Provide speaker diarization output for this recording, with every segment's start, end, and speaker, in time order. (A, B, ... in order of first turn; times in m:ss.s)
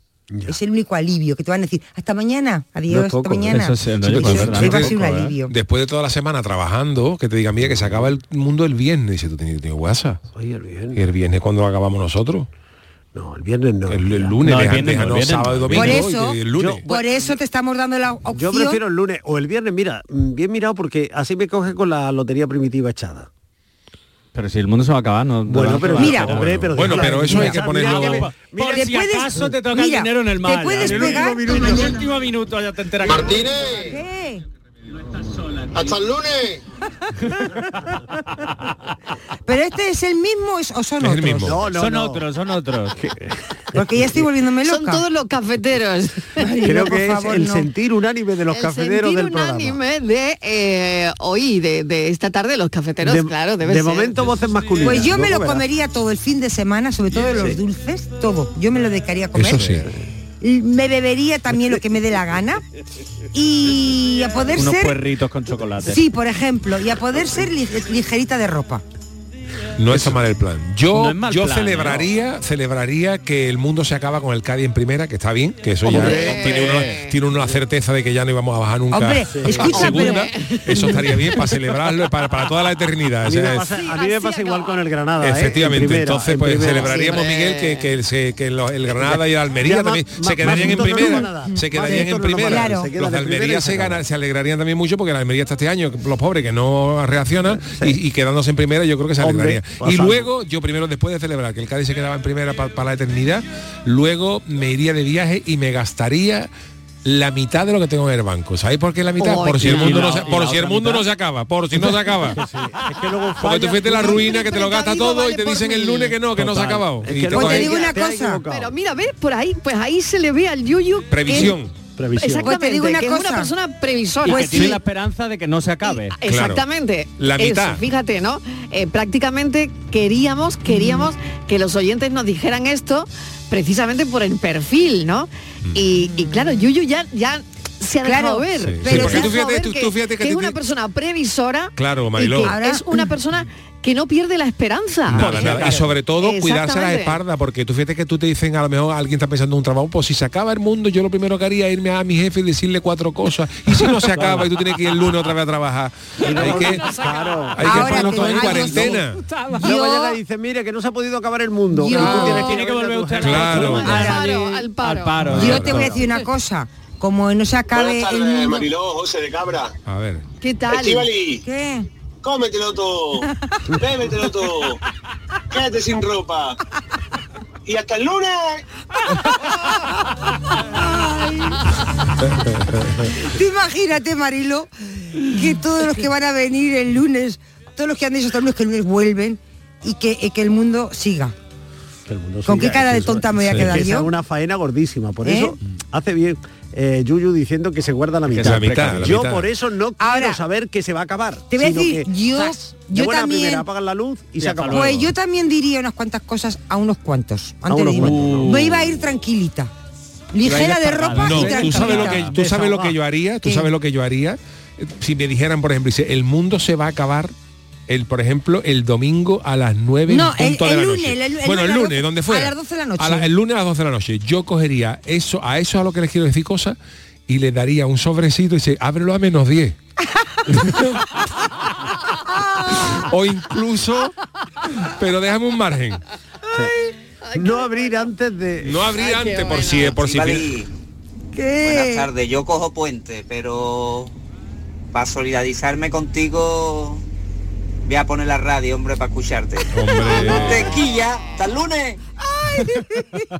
0:00.3-0:00.6 A
0:00.5-0:05.5 B
0:02.9-0:03.6 A
0:03.4-0:05.4 C
0:04.1-0:10.2 D
0:04.2-0:04.7 A
0:10.3-0:11.0 A
0:10.9-0:12.5 D
0:13.1-0:14.3 A
0:13.9-0:16.8 D
0:14.4-0:16.0 C
0:15.7-0:18.8 B
0:16.5-0:16.9 A
0:18.3-0:23.3 A
0:24.3-0:33.5 C
0:25.5-0:28.9 A
0:26.0-0:26.4 B
0:26.6-0:28.3 D
0:27.0-0:27.6 B
0:28.7-0:32.0 B
0:30.8-0:31.9 A
0:33.0-0:34.0 E
0:33.8-0:34.4 B
0:35.7-0:36.6 E
0:39.4-0:41.6 B
0:41.0-0:41.6 D
0:41.4-0:42.2 A
0:41.7-0:43.0 C
0:43.0-0:44.2 A
0:43.7-0:45.0 B
0:44.6-0:46.5 F
0:46.4-0:47.7 B
0:46.6-0:49.8 A
0:48.5-0:54.3 F
0:53.0-0:55.6 A
0:54.8-0:59.9 B
0:57.2-0:57.6 A
0:59.3-0:59.9 D
1:00.4-1:02.6 B
1:03.3-1:05.0 B
1:04.5-1:06.0 C
1:05.8-1:08.8 B
1:09.8-1:23.7 D
1:10.9-1:12.1 C
1:15.9-1:16.8 A
1:15.9-1:17.2 F
1:18.9-1:21.0 B
1:19.3-1:19.7 A
1:19.7-1:21.0 F
1:23.2-1:27.1 A
1:23.7-1:24.8 F
1:25.2-1:46.5 D
1:26.6-1:27.9 F
1:28.9-1:34.0 A
1:30.5-1:32.9 B
1:37.5-1:38.0 A
1:39.2-1:40.3 A
1:47.0-1:52.4 D
1:49.2-1:50.4 F
1:49.6-1:51.0 C
1:51.8-1:54.4 A
1:53.4-1:57.8 D
1:54.0-1:56.1 F
1:56.4-1:58.7 A
1:57.3-1:58.4 B
1:58.5-2:01.6 F
2:01.1-2:01.7 D
2:02.0-2:02.5 A
2:02.2-2:04.8 F
2:02.4-2:03.5 B
2:04.2-2:06.2 C
2:04.3-2:04.8 B
2:05.8-2:27.2 F
2:06.2-2:06.6 D
2:07.2-2:07.8 D
2:10.7-2:11.1 B
2:18.0-2:19.4 B
2:18.7-2:20.6 D
2:21.8-2:22.6 D
2:22.4-2:23.1 B
2:25.1-2:36.9 D
2:25.1-2:25.8 C
2:34.1-2:34.5 A
2:36.2-2:39.0 A
2:37.5-2:39.2 D
2:37.6-2:39.0 B
2:39.3-2:39.7 C
2:39.6-2:40.2 B
2:39.6-2:44.0 A
2:41.7-2:42.6 B
2:41.9-2:46.1 C
2:42.0-2:42.2 D
2:43.2-2:44.1 D
2:43.7-2:45.2 F
2:43.8-2:44.3 B
2:45.2-2:45.9 D
2:45.3-2:48.7 B
2:47.7-2:49.7 E
2:49.8-2:50.2 D
2:50.4-2:51.1 F
2:50.7-2:51.4 E
2:51.4-2:51.8 B
2:52.2-2:54.8 E
2:55.5-2:56.6 E
2:57.7-2:58.6 E
3:00.6-3:01.6 B
3:03.2-3:11.3 B
3:12.1-3:22.1 A
3:12.4-3:14.1 B
3:15.2-3:15.5 B
3:18.3-3:19.2 C
3:18.4-3:19.5 D
3:20.0-3:20.4 B
3:21.5-3:23.7 B
3:22.9-3:24.9 A
3:24.4-3:25.1 C
3:24.7-3:29.7 B
3:27.7-3:28.5 A
3:27.9-3:28.8 C
3:30.3-3:32.3 B
3:30.4-3:32.5 C
3:31.1-3:37.3 D
3:32.3-3:33.0 A
3:33.4-3:33.7 B
3:37.9-3:46.8 D
3:40.1-3:43.3 B
3:47.3-3:49.8 D
3:50.5-3:51.2 D
3:52.2-3:53.0 B
3:52.7-3:54.1 D
3:54.7-3:56.0 D
3:57.2-3:58.1 F
3:57.3-3:59.1 A
3:58.6-4:00.5 D
3:59.0-3:59.9 F
3:59.9-4:00.7 G
4:01.3-4:02.1 B
4:01.6-4:04.1 G
4:04.9-4:07.0 G
4:07.8-4:12.0 G
4:09.7-4:10.7 D
4:12.3-4:13.2 B